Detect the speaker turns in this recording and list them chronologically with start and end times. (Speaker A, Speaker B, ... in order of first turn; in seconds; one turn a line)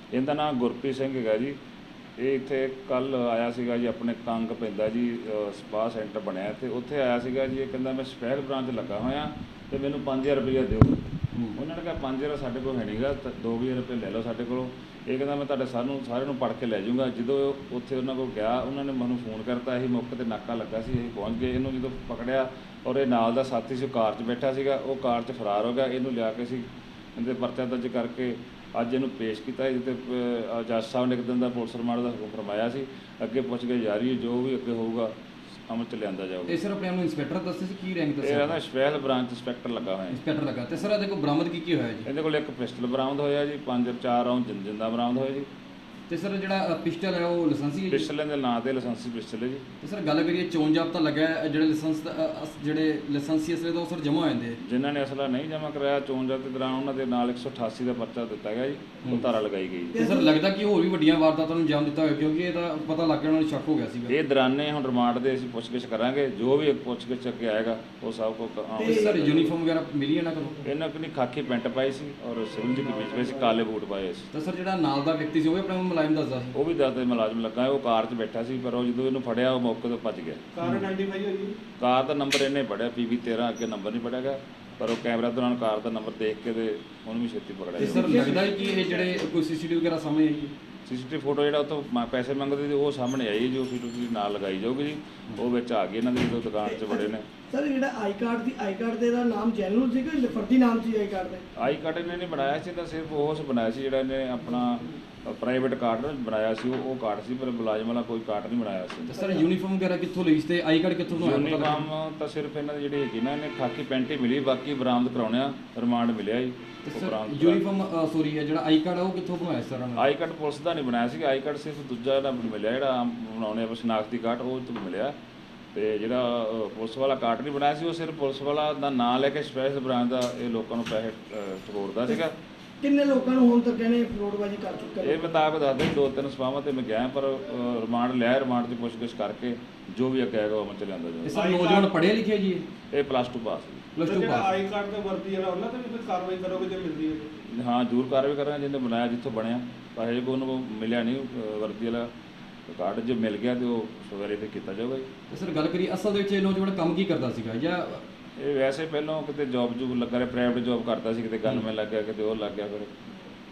Speaker A: 0.1-1.6
Speaker A: 2.2-11.0
Speaker B: 11.3-11.6
Speaker A: 11.5-26.6
Speaker A: 27.1-35.1
Speaker A: 35.7-36.6
Speaker B: 36.5-38.6
Speaker A: 38.2-40.2
Speaker B: 40.1-42.1
Speaker A: 42.0-45.5
Speaker B: 46.1-48.1
Speaker A: 47.9-49.6
Speaker B: 49.8-54.6
Speaker A: 54.6-60.0
Speaker C: 59.9-60.4
Speaker B: 59.9-64.1
Speaker A: 64.1-69.5
Speaker C: 68.8-69.2
Speaker B: 68.8-70.6
Speaker A: 70.6-74.3
Speaker D: 72.8-73.5
Speaker B: 74.3-76.5
Speaker A: 76.5-80.5
Speaker D: 80.5-81.5
Speaker A: 81.8-88.3
Speaker C: 87.7-89.2
Speaker B: 87.8-90.5
Speaker A: 90.8-97.2
Speaker C: 96.6-101.4
Speaker A: 101.5-109.1
Speaker B: 109.1-111.9
Speaker C: 109.2-109.5
Speaker A: 111.1-117.6
Speaker B: 116.8-120.1
Speaker A: 120.0-125.1
Speaker A: 125.7-132.3
Speaker C: 132.8-135.3
Speaker A: 135.0-141.3
Speaker B: 141.2-142.6
Speaker D: 141.3-141.9
Speaker A: 142.9-143.9
Speaker B: 143.9-144.5
Speaker D: 144.0-147.3
Speaker A: 147.4-152.1
Speaker A: 152.7-155.1
Speaker B: 155.3-158.0
Speaker A: 158.4-162.9